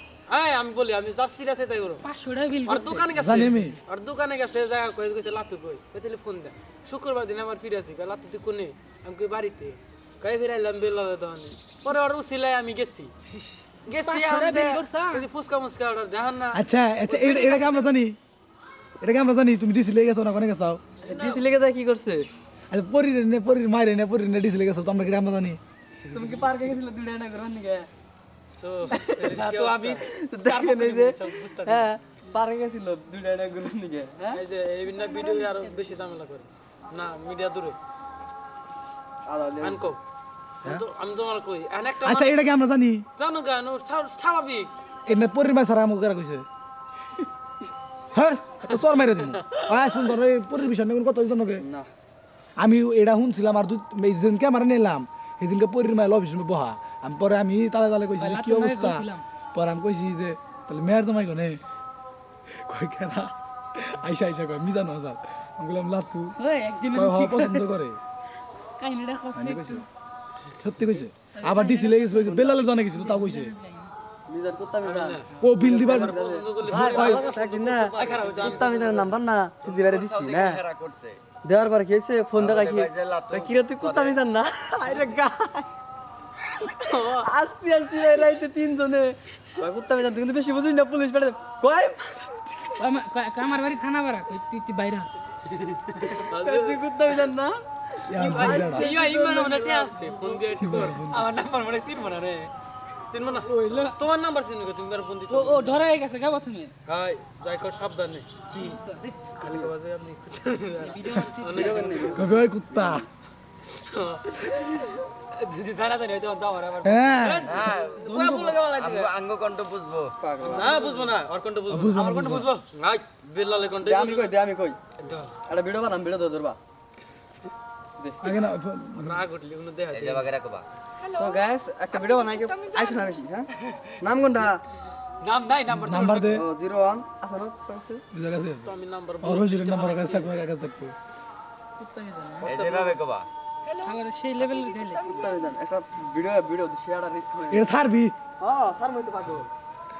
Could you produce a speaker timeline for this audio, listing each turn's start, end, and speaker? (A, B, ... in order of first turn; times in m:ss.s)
0:00.3-0:02.0 A
0:02.0-0:03.1 B
0:02.6-0:13.3 A
0:03.1-0:03.8 C
0:13.8-0:17.9 A
0:14.0-0:15.2 B
0:16.5-0:18.2 C
0:19.0-0:20.8 C
0:21.0-0:21.4 A
0:21.0-0:22.3 D
0:22.7-0:25.6 C
0:26.1-0:27.9 D
0:28.5-0:31.9 A
0:28.9-0:34.4 D
0:34.3-0:37.8 A
0:34.9-0:35.7 B
0:39.2-0:39.8 D
0:39.6-0:40.0 A
0:40.6-0:42.4 A
0:42.0-0:43.0 C
0:43.2-0:44.7 A
0:45.0-0:46.4 C
0:48.1-0:51.7 C
0:48.7-0:49.6 A
0:51.6-0:51.9 D
0:52.6-1:01.6 C
0:58.2-0:59.2 B
1:02.5-1:06.4 C
1:06.4-1:07.7 B
1:06.9-1:08.0 C
1:08.8-1:09.9 B
1:09.3-1:09.8 C
1:10.6-1:13.5 C
1:11.4-1:12.2 B
1:12.2-1:12.7 D
1:12.8-1:13.9 B
1:14.3-1:20.6 D
1:14.8-1:19.1 A
1:15.4-1:17.3 C
1:18.0-1:18.9 E
1:19.6-1:21.2 E
1:21.4-1:25.7 D
1:22.3-1:24.2 E
1:26.6-1:27.3 A
1:27.1-1:32.8 D
1:32.8-1:35.1 B
1:35.5-1:36.8 A
1:36.0-1:40.1 D
1:38.1-1:38.9 C
1:38.4-1:42.5 A
1:40.6-1:41.3 C
1:43.1-1:45.8 A
1:43.5-1:44.0 B
1:45.3-1:46.7 B
1:46.8-1:48.8 A
1:48.6-1:49.1 B
1:49.3-1:52.2 A
1:49.4-1:49.7 D
1:50.8-1:52.1 B
1:51.5-1:53.0 D
1:52.1-1:53.0 C
1:53.7-1:59.1 A
1:56.8-1:57.6 C
1:57.5-1:58.1 E
1:57.9-1:58.7 B
1:58.7-2:00.2 E
2:00.2-2:00.7 D
2:00.4-2:00.9 B
2:00.4-2:04.3 A
2:01.7-2:02.5 C
2:03.8-2:04.8 D
2:05.0-2:05.3 A
2:05.4-2:06.6 D
2:08.0-2:08.3 D
2:08.2-2:09.2 C
2:08.9-2:10.3 A
2:09.9-2:10.6 E
2:11.1-2:13.5 D
2:14.0-2:14.6 D
2:15.2-2:16.4 A
2:15.7-2:16.4 C
2:16.3-2:18.0 D
2:18.1-2:18.7 C
2:18.6-2:20.3 A
2:19.2-2:20.9 C
2:21.8-2:22.5 B
2:22.4-2:23.0 A
2:22.4-2:23.3 E
2:23.8-2:25.2 B
2:24.9-2:27.7 D
2:27.5-2:28.1 C
2:28.4-2:29.5 D